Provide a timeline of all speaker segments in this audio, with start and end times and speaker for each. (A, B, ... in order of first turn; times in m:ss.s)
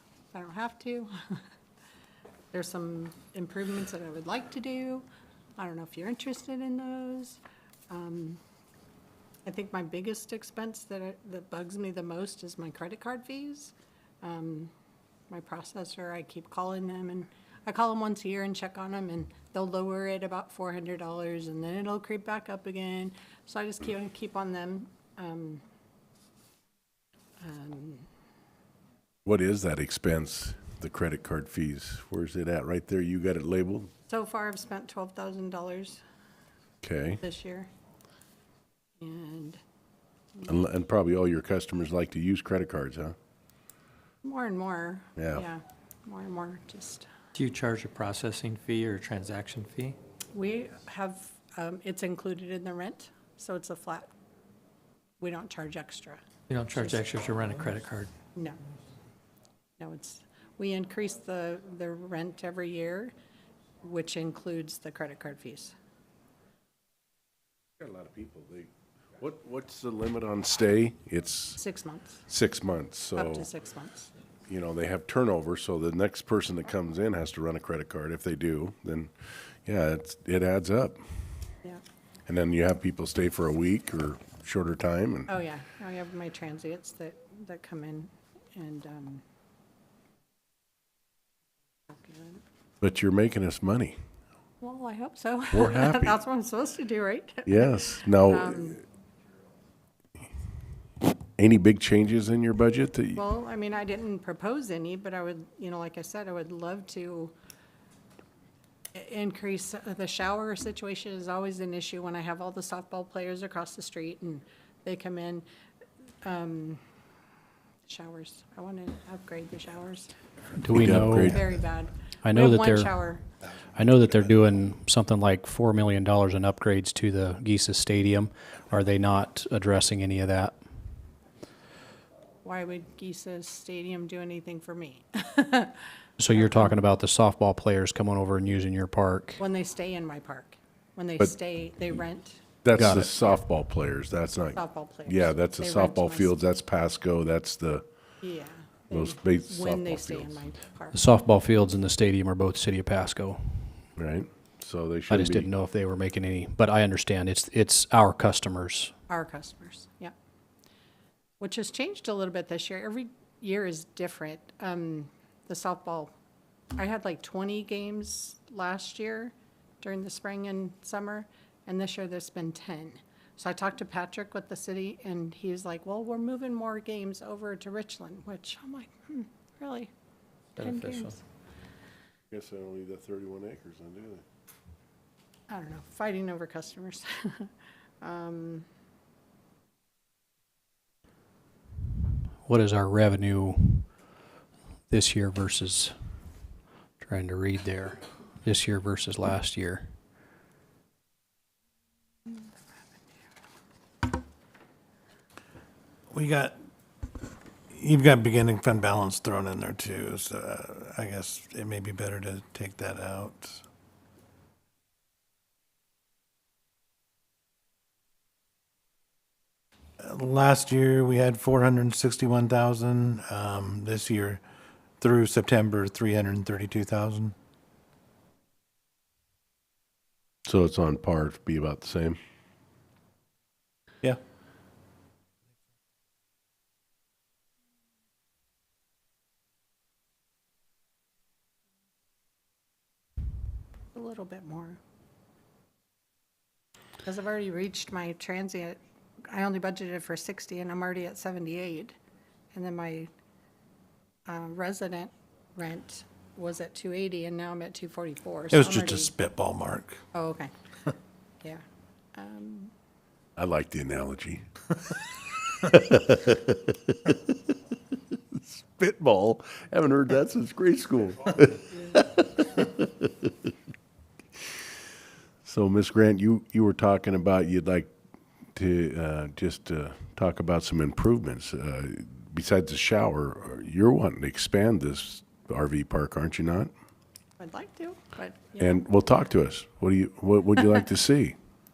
0:00.3-0:01.1 A
0:02.5-0:05.0 A
0:05.6-0:08.4 A
0:09.5-0:14.7 A
0:15.3-0:25.6 A
0:27.4-0:28.1 A
0:29.3-0:33.9 B
0:34.1-0:36.0 A
0:36.8-0:37.2 B
0:37.2-0:37.7 A
0:39.0-0:39.6 A
0:40.5-0:43.2 B
0:44.2-0:47.1 A
0:45.2-0:45.4 B
0:47.3-0:50.0 C
0:50.3-0:54.1 A
0:55.2-0:56.2 A
0:56.5-0:58.1 C
0:56.8-0:57.0 A
0:59.8-1:03.1 A
1:03.8-1:05.7 A
1:07.8-1:11.6 B
1:11.6-1:12.2 A
1:12.3-1:13.5 B
1:13.2-1:14.1 A
1:14.5-1:19.1 B
1:19.7-1:21.0 B
1:22.3-1:25.3 B
1:25.3-1:29.2 A
1:31.9-1:32.4 A
1:32.8-1:34.0 B
1:34.6-1:38.8 A
1:35.5-1:36.2 B
1:37.5-1:38.8 B
1:41.4-1:43.2 B
1:43.2-1:47.3 A
1:48.9-1:55.5 A
1:56.2-1:56.8 A
1:57.9-2:00.1 A
2:00.6-2:01.4 D
2:00.7-2:01.4 B
2:01.0-2:03.2 A
2:02.2-2:03.0 D
2:03.8-2:10.6 D
2:12.4-2:15.8 A
2:16.2-2:19.4 D
2:16.3-2:16.8 A
2:19.4-2:22.4 A
2:22.6-2:27.8 B
2:22.7-2:23.1 D
2:24.6-2:26.3 A
2:28.2-2:31.0 A
2:28.9-2:30.4 B
2:30.9-2:33.8 D
2:34.0-2:35.5 B
2:35.1-2:38.9 D
2:39.1-2:40.1 A
2:41.4-2:46.1 A
2:46.8-2:59.9 A
3:00.6-3:01.2 C
3:00.6-3:01.2 A
3:02.3-3:04.2 B
3:05.5-3:07.5 A
3:08.0-3:08.7 A
3:12.5-3:14.0 D
3:14.9-3:15.9 D
3:17.0-3:20.0 D
3:26.1-3:26.6 E
3:27.7-3:33.6 E
3:40.0-3:44.4 E
3:45.0-3:47.3 E
3:50.5-3:52.2 B
4:03.9-4:04.8 A
4:07.0-4:12.0 A
4:12.5-4:13.1 A
4:14.3-4:19.1 A
4:18.5-4:20.0 E
4:20.1-4:20.5 A
4:22.2-4:22.7 A
4:23.4-4:27.2 B
4:28.3-4:33.3 B
4:35.4-4:37.9 B
4:38.6-4:46.7 B
4:47.4-4:48.9 A
4:48.6-4:51.4 B